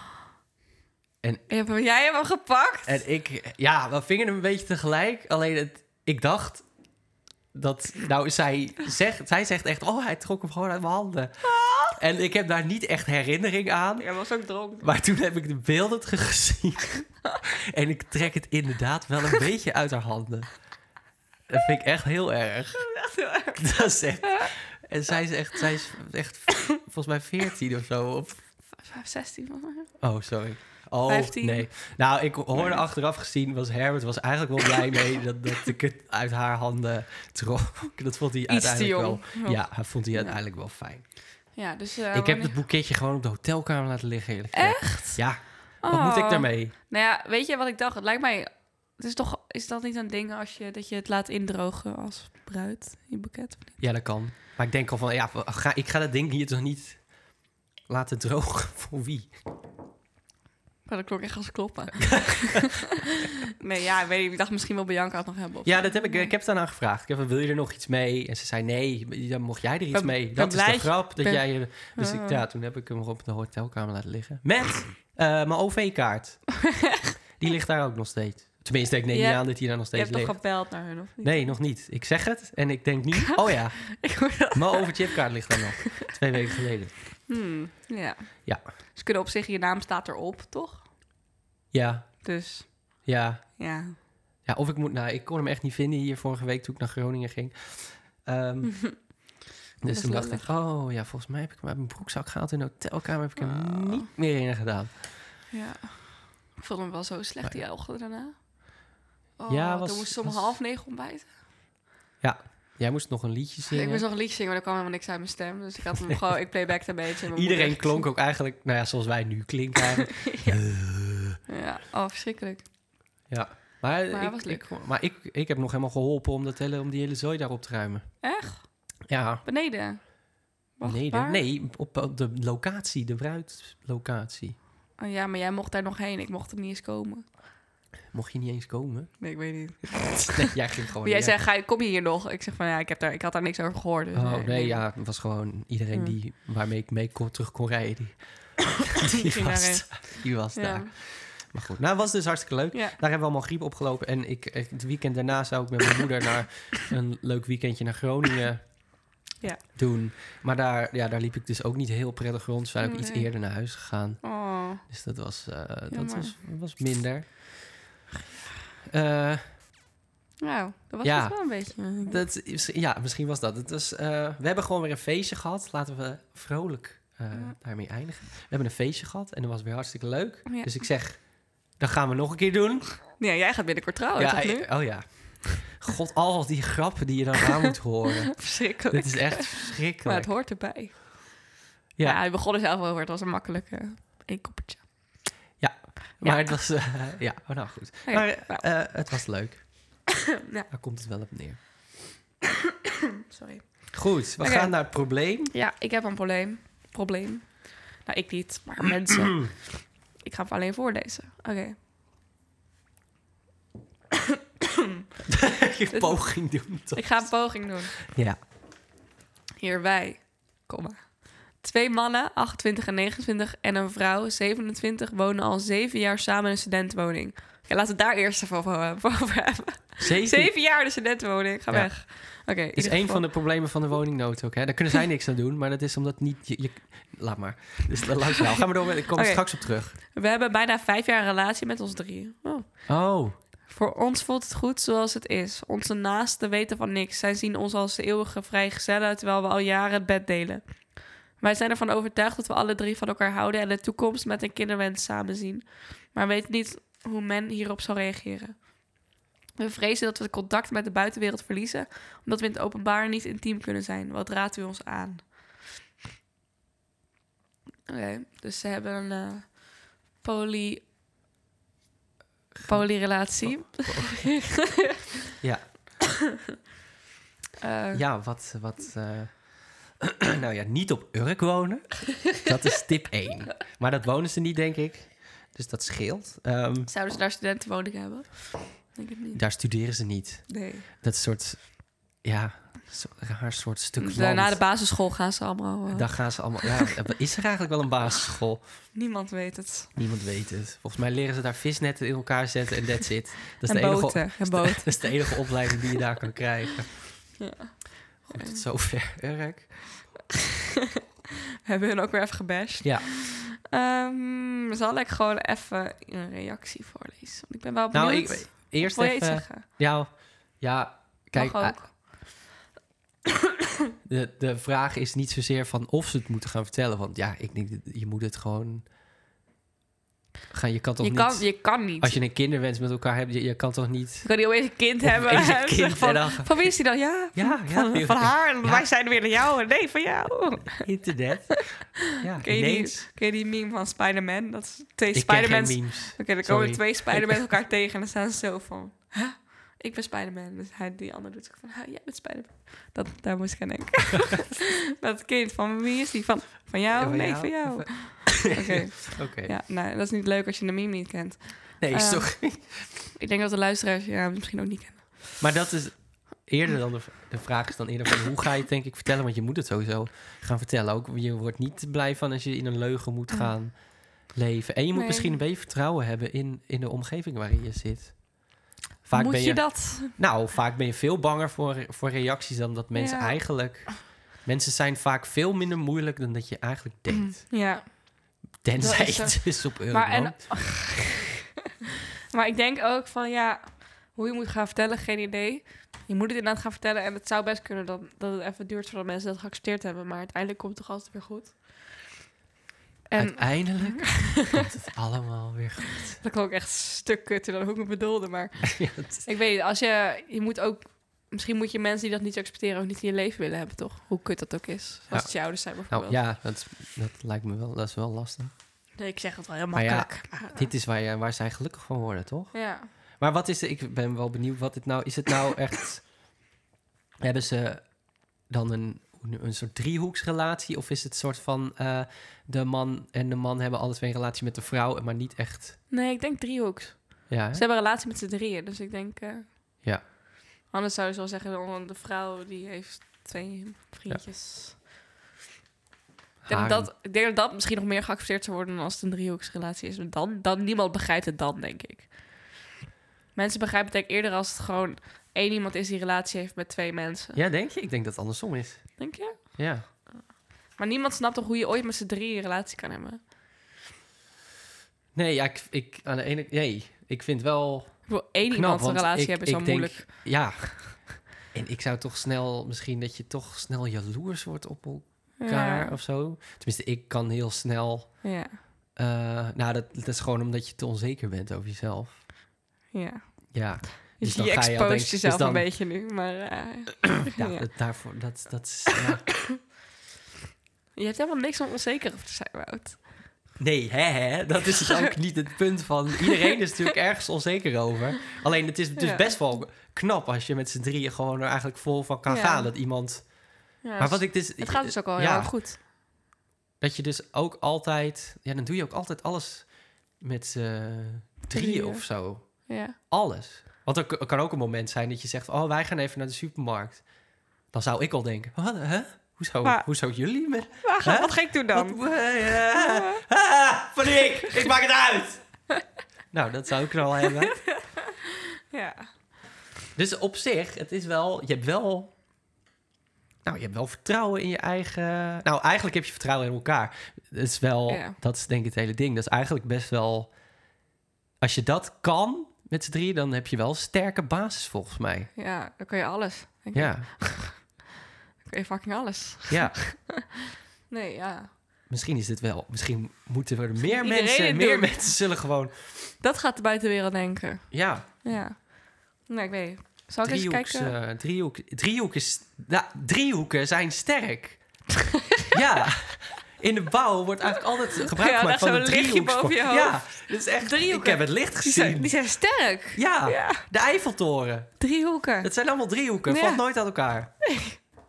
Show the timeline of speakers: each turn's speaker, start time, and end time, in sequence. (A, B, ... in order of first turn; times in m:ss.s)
0:01.5-0:03.0 A
0:02.9-0:06.7 B
0:07.5-0:14.1 B
0:11.4-0:12.0 A
0:14.0-0:14.9 A
0:14.8-0:20.6 B
0:21.5-0:28.4 B
0:22.8-0:24.5 A
0:28.7-0:29.9 A
0:30.0-0:41.5 B
0:31.0-0:32.8 A
0:38.5-0:40.4 A
0:41.5-0:42.6 A
0:42.1-0:46.7 B
0:44.5-0:53.8 A
0:53.8-0:59.3 B
1:00.9-1:06.3 A
1:02.0-1:02.6 B
1:05.6-1:16.6 B
1:09.9-1:12.4 A
1:17.4-1:27.0 B
1:19.1-1:21.6 A
1:23.9-1:25.6 A
1:27.3-1:30.9 A
1:31.7-1:32.4 B
1:32.2-1:34.0 A
1:33.0-1:33.6 B
1:34.4-1:39.1 B
1:38.8-1:39.3 A
1:39.8-1:40.5 A
1:39.8-1:45.0 B
1:43.4-1:44.0 A
1:45.5-1:51.3 A
1:49.5-1:50.6 B
1:52.2-1:54.0 B
1:53.7-1:58.1 A
1:57.3-2:01.4 B
2:00.2-2:00.6 A
2:01.5-2:02.7 A
2:03.3-2:08.2 B
2:04.1-2:04.7 A
2:08.2-2:11.4 A
2:09.1-2:09.4 B
2:10.8-2:14.6 B
2:15.0-2:17.3 A
2:18.1-2:19.3 B
2:19.2-2:20.5 A
2:20.3-2:21.4 B
2:21.0-2:24.8 A
2:24.1-2:38.8 B
2:29.1-2:30.9 A
2:39.7-2:47.7 B
2:42.8-2:43.7 A
2:44.2-2:44.8 A
2:45.9-2:46.4 A
2:48.8-2:49.6 B
2:50.4-2:52.2 A
2:51.0-3:03.0 B
3:00.5-3:00.8 A
3:03.2-3:05.3 A
3:04.2-3:10.3 B
3:08.4-3:11.4 A
3:12.0-3:15.4 A
3:15.6-3:20.0 B
3:16.2-3:16.5 A
3:18.1-3:18.9 A
3:20.7-3:21.7 B
3:23.3-3:31.8 A
3:23.9-3:25.5 B
3:35.3-3:38.4 B
3:35.9-3:38.0 A
3:39.6-3:53.2 A
3:50.0-3:50.6 B
3:51.7-4:00.0 B
3:59.1-4:03.1 A
4:02.9-4:03.4 B
4:03.6-4:19.0 A
4:19.6-4:25.4 A
4:27.9-4:30.8 A
4:32.6-4:34.6 B
4:32.6-4:35.0 A
4:35.4-4:35.8 B
4:37.6-4:38.0 A
4:37.9-4:46.9 B
4:46.9-4:49.4 A
4:49.3-4:54.6 B
4:50.5-4:50.9 A
4:54.0-4:56.7 A
4:55.9-4:58.9 B
4:58.9-4:59.9 A
5:00.0-5:07.5 B
5:03.6-5:05.5 A
5:07.4-5:08.6 A
5:08.3-5:09.9 B
5:11.7-5:19.6 A
5:12.8-5:13.1 B
5:17.9-5:21.8 B
5:21.3-5:22.3 A
5:24.0-5:28.9 B
5:30.5-5:38.9 B
5:31.0-5:32.2 A
5:34.2-5:40.8 A
5:40.8-5:43.0 B
5:42.4-6:05.4 A
5:45.1-5:47.5 B
5:56.9-5:59.5 B
6:01.8-6:02.9 B
6:05.4-6:18.5 B
6:14.9-6:15.4 A
6:19.0-6:27.6 B
6:19.1-6:20.1 A
6:23.0-6:23.7 A
6:27.5-6:31.3 A
6:28.6-6:30.6 B
6:32.3-6:42.2 A
6:43.1-6:44.7 A
6:43.2-6:46.2 B
6:46.2-6:56.2 A
6:48.8-6:49.2 B
6:55.1-6:58.5 B
6:59.0-7:00.7 A
6:59.7-7:06.3 B
7:02.5-7:02.9 A
7:07.2-7:15.8 B
7:15.9-7:19.8 A
7:17.3-7:17.6 B
7:20.7-7:24.8 A
7:26.4-7:26.9 B
7:26.5-7:32.5 A
7:33.3-7:37.4 A
7:37.3-7:39.9 B
7:39.0-7:43.3 A
7:45.2-7:58.4 B
7:48.1-7:50.3 A
7:55.4-7:56.0 A
7:58.2-7:58.6 A
7:59.0-8:02.2 B
8:02.9-8:07.7 A
8:03.5-8:05.7 B
8:07.3-8:09.5 B
8:11.0-8:13.2 A
8:13.6-8:25.6 B
8:14.9-8:15.1 A
8:19.0-8:19.4 A
8:22.3-8:22.7 A
8:23.8-8:25.8 A
8:26.8-8:37.1 B
8:31.5-8:33.0 A
8:37.6-8:45.7 B
8:39.6-8:39.9 A
8:40.8-8:42.0 A
8:42.8-8:43.2 A
8:46.3-8:47.7 B
8:48.7-8:49.1 A
8:50.0-8:52.1 B
8:53.4-9:00.3 B
8:57.9-8:58.2 A
9:01.4-9:05.3 B
9:05.4-9:07.9 A
9:06.7-9:07.1 B
9:08.4-9:10.2 A
9:09.5-9:09.8 B
9:10.9-9:11.5 A
9:11.9-9:16.1 B
9:13.9-9:15.2 A
9:16.2-9:21.0 A
9:17.7-9:18.1 B
9:20.2-9:24.8 B
9:25.5-9:32.2 B
9:28.1-9:33.6 A
9:32.9-9:34.8 B
9:34.8-9:35.5 A
9:35.4-9:37.3 B
9:36.3-9:36.7 A
9:37.5-9:37.8 A